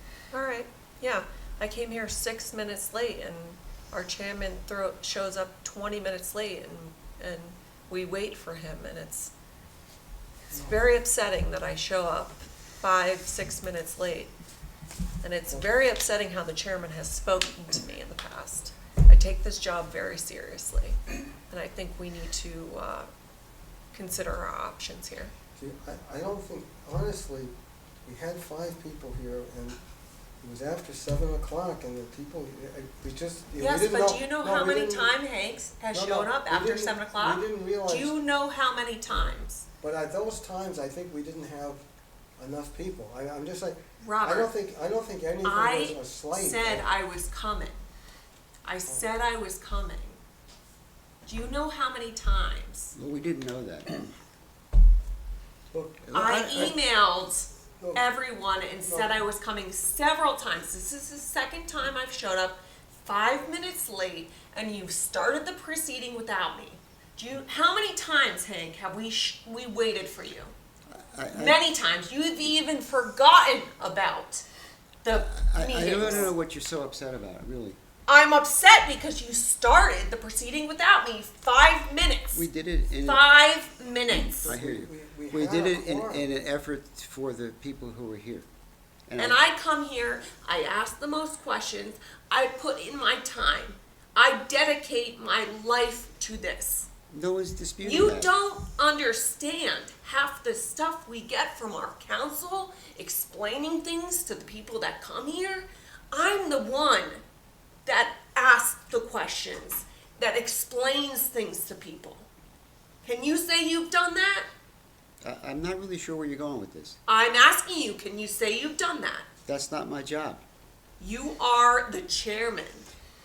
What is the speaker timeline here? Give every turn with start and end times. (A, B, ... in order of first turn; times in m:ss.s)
0:00.3-0:09.3 A
0:10.5-0:10.8 B
0:10.5-0:14.3 A
0:15.2-0:21.0 A
0:21.5-0:23.1 A
0:23.9-0:25.3 A
0:25.6-0:27.5 B
0:28.0-0:29.8 B
0:30.4-0:35.2 B
0:33.6-0:39.6 A
0:35.9-0:38.2 B
0:39.8-0:41.8 B
0:42.4-0:46.9 B
0:44.0-0:44.5 A
0:45.4-0:47.8 A
0:48.7-0:50.2 A
0:51.2-0:52.9 A
0:53.0-0:54.1 C
0:55.7-0:56.8 B
0:56.0-0:56.8 C
0:56.1-1:10.5 A
0:57.8-0:58.0 B
0:58.8-0:59.2 B
1:10.9-1:11.6 C
1:11.3-1:14.4 A
1:15.0-1:16.3 A
1:15.1-1:17.8 C
1:18.1-1:22.5 A
1:22.3-1:23.2 C
1:23.0-1:24.5 A
1:24.4-1:28.5 C
1:24.5-1:26.3 B
1:29.1-1:29.4 C
1:29.2-1:36.9 A
1:37.1-1:38.4 C
1:37.8-1:47.2 A
1:47.8-1:52.3 A
1:53.0-1:54.5 A
1:55.2-1:57.0 C
1:57.1-1:59.3 A
1:59.5-2:00.4 C
2:01.0-2:02.9 A